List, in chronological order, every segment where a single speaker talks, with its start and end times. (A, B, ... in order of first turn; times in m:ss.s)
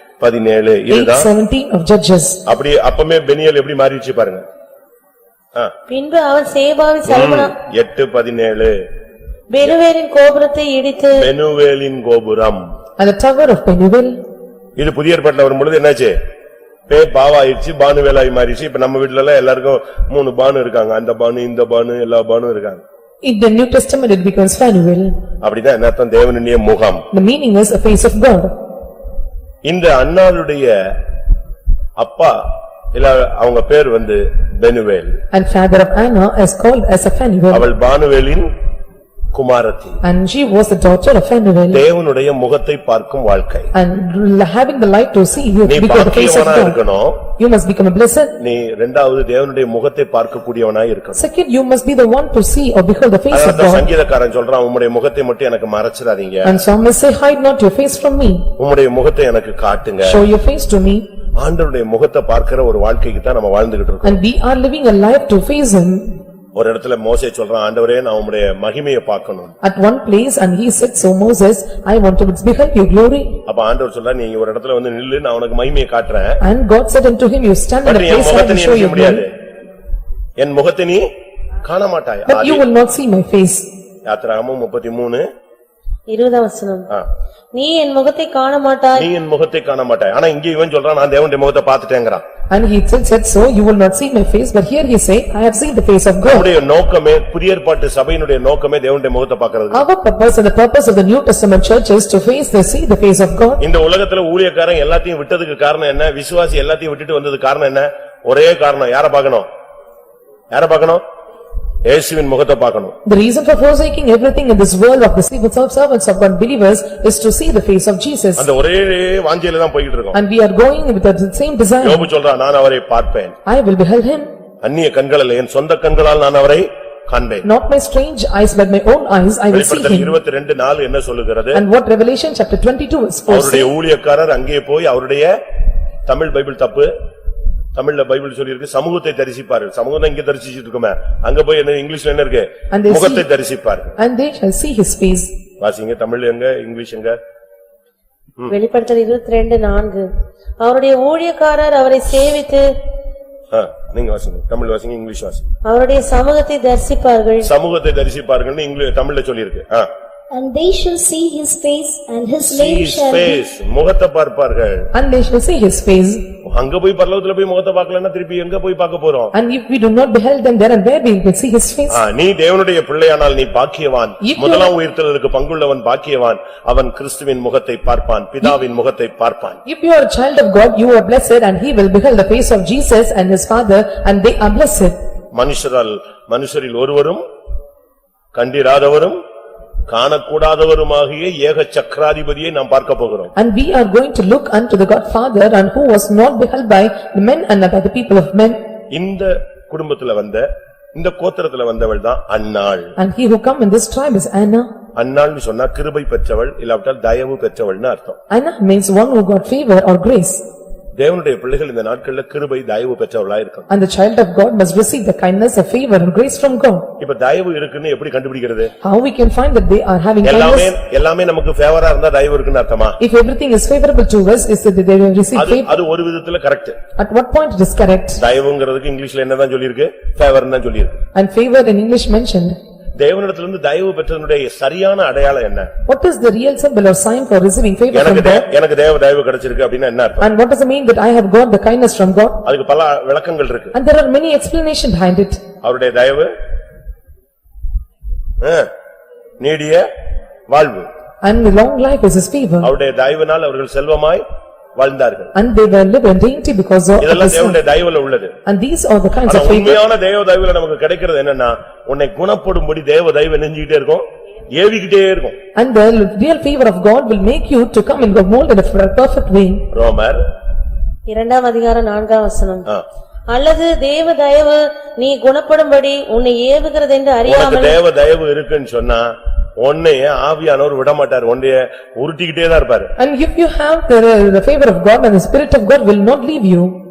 0:00.2-0:01.3 A
0:00.9-0:02.4 B
0:02.4-0:04.4 A
0:05.9-0:07.5 C
0:07.1-0:08.7 A
0:09.5-0:11.2 C
0:11.2-0:12.6 A
0:13.0-0:14.2 B
0:14.8-0:16.2 A
0:16.9-0:22.8 A
0:23.2-0:25.1 B
0:25.4-0:27.0 A
0:27.1-0:28.5 B
0:29.6-0:30.9 A
0:32.0-0:32.4 A
0:32.9-0:35.2 A
0:35.3-0:37.6 B
0:37.5-0:38.5 A
0:39.3-0:40.0 A
0:40.0-0:41.8 B
0:41.7-0:43.7 A
0:43.7-0:46.8 B
0:45.6-0:47.2 A
0:47.4-0:48.4 B
0:48.4-0:51.2 A
0:51.2-0:53.9 B
0:53.3-0:56.5 A
0:56.4-0:58.5 B
0:58.6-1:00.2 A
1:00.0-1:01.0 B
1:01.4-1:04.2 A
1:04.0-1:06.1 B
1:06.5-1:09.5 A
1:09.6-1:13.4 B
1:13.4-1:16.4 A
1:16.4-1:19.2 B
1:17.8-1:19.3 A
1:20.4-1:21.0 A
1:21.6-1:22.6 A
1:22.3-1:23.6 B
1:24.0-1:25.2 A
1:26.1-1:26.9 C
1:27.5-1:29.1 C
1:28.9-1:32.2 A
1:32.5-1:36.5 B
1:36.2-1:39.8 A
1:39.7-1:43.6 B
1:43.6-1:49.5 A
1:50.5-1:51.0 A
1:51.8-1:53.0 A
1:53.0-1:58.5 B
1:58.4-2:00.2 A
2:00.1-2:02.1 B
2:01.8-2:03.3 A
2:03.4-2:04.3 B
2:04.6-2:07.5 A
2:07.4-2:10.2 B
2:09.5-2:11.6 A
2:11.5-2:13.7 B
2:13.3-2:15.3 A
2:16.0-2:16.9 A
2:17.8-2:24.0 A
2:22.7-2:23.2 B
2:24.0-2:25.3 B
2:25.6-2:27.2 A
2:28.5-2:30.0 C
2:30.6-2:32.6 C
2:33.5-2:35.4 A
2:35.6-2:37.5 C
2:37.4-2:39.9 A
2:40.3-2:43.4 D
2:42.5-2:44.9 A
2:44.9-2:46.3 B
2:46.4-2:49.3 A
2:49.3-2:52.0 B
2:51.9-2:59.6 A
2:54.2-2:54.7 B
2:59.6-3:04.9 B
3:05.3-3:07.2 A
3:08.3-3:09.2 A
3:09.9-3:13.3 A
3:13.4-3:18.6 B
3:18.9-3:22.9 A
3:23.0-3:24.7 B
3:25.0-3:28.2 A
3:28.3-3:30.4 B
3:31.0-3:33.7 A
3:33.7-3:36.9 B
3:37.0-3:38.7 A
3:38.8-3:40.8 B
3:40.2-3:43.0 A
3:43.0-3:45.7 B
3:45.3-3:46.8 A
3:47.0-3:48.2 B
3:48.2-3:51.0 A
3:51.1-3:52.6 B
3:53.0-3:55.7 A
3:55.8-3:58.5 B
3:57.9-4:00.3 A
4:00.2-4:02.5 B
4:02.4-4:03.7 A
4:03.7-4:05.4 B
4:05.6-4:06.3 A
4:08.4-4:08.7 A
4:09.4-4:09.8 A
4:10.5-4:10.9 A
4:11.2-4:12.7 B
4:12.6-4:14.2 A
4:14.8-4:15.3 A
4:15.3-4:17.6 B
4:17.0-4:18.4 A
4:18.4-4:19.8 B
4:19.2-4:25.4 A
4:25.5-4:29.6 B
4:29.7-4:30.2 A
4:31.1-4:32.7 C
4:33.3-4:37.8 C
4:37.2-4:39.1 A
4:39.6-4:42.9 A
4:43.0-4:46.8 B